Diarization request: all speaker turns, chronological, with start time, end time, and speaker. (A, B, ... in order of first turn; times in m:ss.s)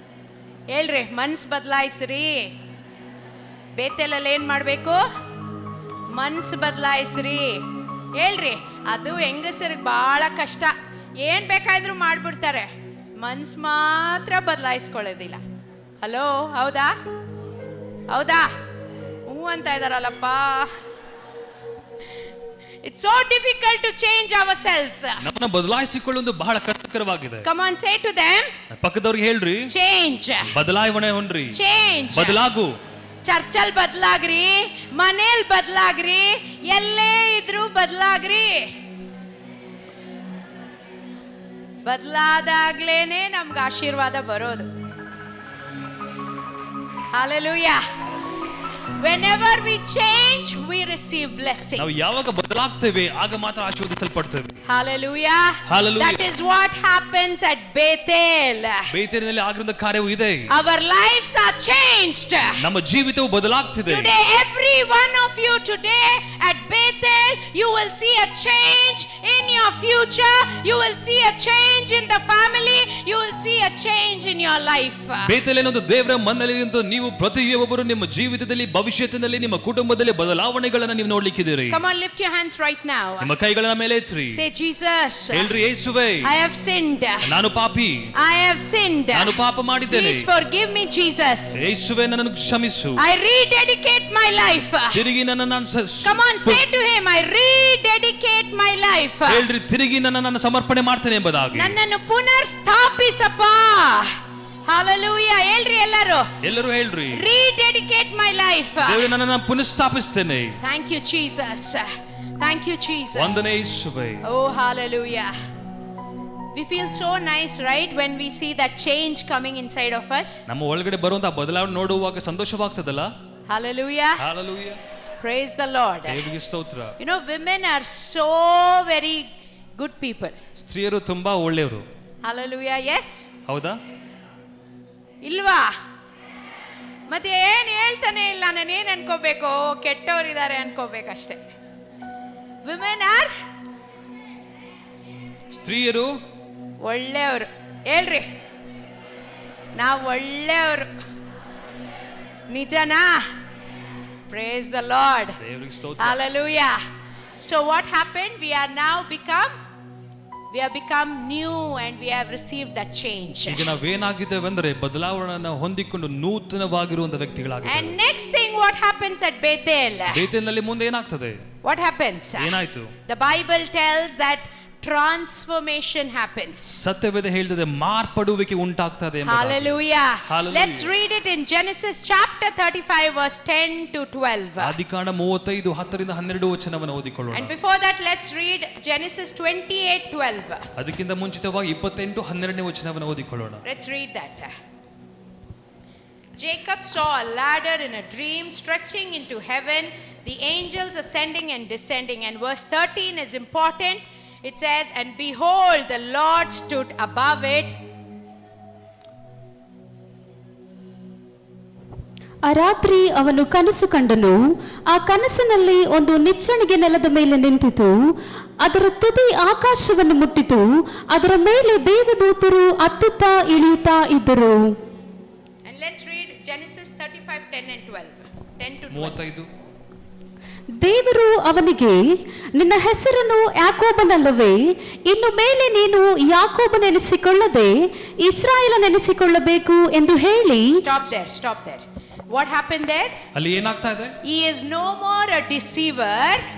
0:00.7-0:02.5 A
0:03.8-0:05.0 A
0:06.1-0:07.6 A
0:08.2-0:15.4 A
0:16.0-0:16.9 A
0:18.1-0:18.5 A
0:19.3-0:20.7 A
0:22.8-0:25.2 A
0:25.2-0:27.5 B
0:27.4-0:28.5 A
0:28.8-0:29.7 B
0:29.7-0:30.5 A
0:30.5-0:31.6 B
0:31.5-0:32.4 A
0:32.1-0:32.7 B
0:33.2-0:38.7 A
0:41.8-0:44.7 A
0:47.1-0:47.8 A
0:49.0-0:51.9 A
0:51.8-0:54.6 B
0:54.6-0:58.8 A
0:55.6-0:56.2 B
0:58.9-1:00.5 B
1:00.5-1:02.6 A
1:02.6-1:04.1 B
1:03.9-1:15.3 A
1:15.2-1:21.8 B
1:21.7-1:23.3 A
1:23.2-1:24.4 B
1:24.3-1:25.5 A
1:25.3-1:26.3 B
1:26.2-1:27.2 A
1:27.2-1:28.1 B
1:28.2-1:29.4 A
1:29.1-1:30.3 B
1:29.9-1:31.5 A
1:31.5-1:33.0 B
1:33.0-1:35.0 A
1:34.9-1:36.6 B
1:36.0-1:39.5 A
1:39.3-1:41.8 B
1:41.5-1:44.1 A
1:44.6-1:46.3 A
1:46.4-1:47.2 B
1:47.1-1:49.1 A
1:48.8-1:50.6 B
1:50.6-1:51.9 A
1:52.4-1:53.5 A
1:53.1-1:54.2 B
1:54.2-1:55.3 A
1:56.5-2:00.4 A
2:00.5-2:03.1 B
2:03.5-2:04.2 A
2:04.2-2:04.8 B
2:05.2-2:06.3 A
2:06.0-2:06.9 B
2:07.0-2:09.2 A
2:09.8-2:10.4 A
2:10.6-2:11.8 B
2:12.2-2:13.3 A
2:13.4-2:13.8 B
2:15.2-2:15.7 A
2:17.1-2:21.4 A
2:22.6-2:23.3 A
2:25.5-2:26.1 B
2:26.8-2:28.2 A
2:29.8-2:30.9 A
2:32.5-2:33.2 A
2:34.3-2:35.4 A
2:35.4-2:36.2 B
2:36.0-2:36.8 A
2:37.4-2:39.5 A
2:40.5-2:43.7 A
2:43.4-2:48.0 B
2:47.6-2:50.3 A
2:50.1-2:51.4 B
2:51.6-2:56.8 A
2:52.4-2:52.9 B
2:56.8-3:00.9 B
2:59.2-3:04.8 A
3:04.6-3:07.5 B
3:07.3-3:10.6 A
3:10.8-3:13.6 B
3:13.6-3:14.5 A
3:16.4-3:27.8 A
3:32.4-3:34.4 C
3:34.9-3:37.9 C
3:38.6-3:44.8 C
3:45.6-3:49.2 A
3:48.9-3:49.5 B
3:50.8-3:52.0 C
3:52.6-3:57.7 C
3:58.2-4:00.7 C
4:00.8-4:03.1 A
4:03.3-4:04.2 B
4:04.2-4:06.4 A